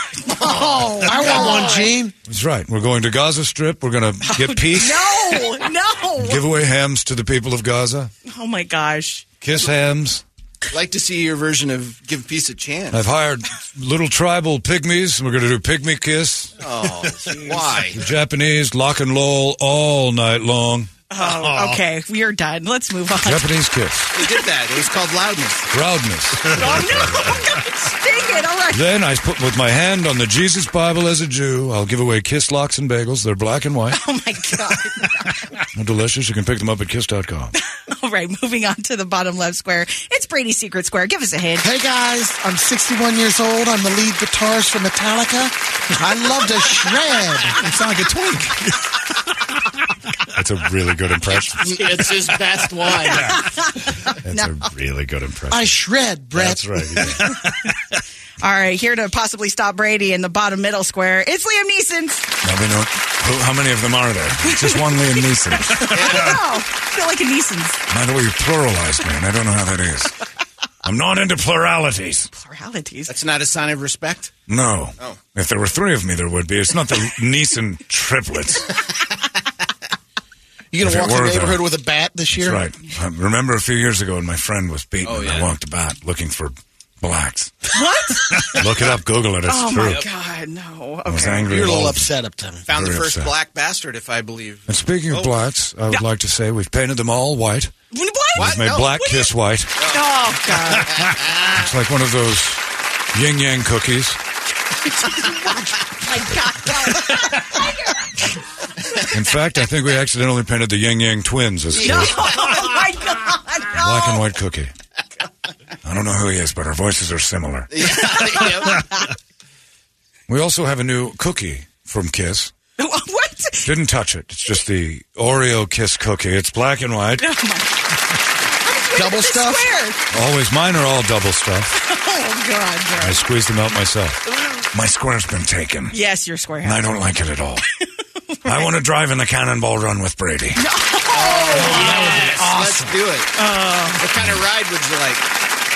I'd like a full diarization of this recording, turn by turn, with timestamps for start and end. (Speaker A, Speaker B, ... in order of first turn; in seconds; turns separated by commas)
Speaker A: 0.2-1.9, Speaker B: 0.3-1.9, Speaker C: 1.0-2.1, Speaker D: 2.2-5.4, Speaker A: 4.2-6.4, Speaker D: 6.2-8.1, Speaker A: 8.2-9.2, Speaker D: 9.4-10.2, Speaker B: 10.7-13.0, Speaker D: 12.9-16.6, Speaker B: 16.6-18.0, Speaker D: 17.9-20.9, Speaker A: 21.1-23.5, Speaker D: 23.2-24.1, Speaker B: 24.1-25.7, Speaker D: 25.7-27.5, Speaker A: 26.5-28.9, Speaker D: 28.7-34.0, Speaker A: 33.9-35.4, Speaker D: 35.7-37.5, Speaker A: 37.7-41.7, Speaker C: 41.6-47.6, Speaker B: 47.6-48.4, Speaker D: 50.3-52.0, Speaker B: 51.6-53.4, Speaker A: 52.9-54.6, Speaker D: 53.1-53.4, Speaker D: 54.2-55.7, Speaker C: 55.5-56.7, Speaker D: 56.3-57.4, Speaker A: 58.4-62.3, Speaker D: 62.4-66.4, Speaker A: 64.4-67.8, Speaker B: 65.9-66.4, Speaker D: 67.9-70.2, Speaker D: 70.8-72.3, Speaker A: 72.3-73.1, Speaker B: 73.1-74.3, Speaker D: 74.5-78.7, Speaker C: 80.7-82.6, Speaker D: 80.8-81.8, Speaker D: 82.3-87.7, Speaker B: 85.0-85.5, Speaker A: 87.7-88.6, Speaker D: 88.3-90.0, Speaker A: 89.5-91.7, Speaker B: 89.8-90.1, Speaker D: 91.0-92.1, Speaker C: 91.4-92.7, Speaker B: 92.7-95.4, Speaker D: 92.7-93.3, Speaker D: 94.7-97.7, Speaker A: 97.9-99.3, Speaker D: 98.3-99.7, Speaker B: 98.3-99.0, Speaker B: 99.8-101.4, Speaker A: 99.9-101.0, Speaker D: 101.2-104.2, Speaker A: 104.7-108.3, Speaker D: 109.1-112.4, Speaker B: 111.7-112.9, Speaker A: 111.8-114.2, Speaker D: 113.7-114.7, Speaker D: 115.8-118.2, Speaker B: 117.7-118.9, Speaker D: 120.3-122.5, Speaker A: 122.8-123.7, Speaker D: 123.6-127.2, Speaker A: 127.2-127.9, Speaker A: 128.6-130.0, Speaker C: 128.9-129.7, Speaker D: 130.1-131.8, Speaker A: 131.7-133.2, Speaker D: 133.0-136.0, Speaker A: 135.9-136.9, Speaker D: 136.6-137.6, Speaker A: 138.4-138.7, Speaker D: 138.4-140.6, Speaker A: 140.6-142.2, Speaker B: 141.1-143.3, Speaker D: 141.7-142.1, Speaker A: 143.3-144.1, Speaker B: 144.0-145.2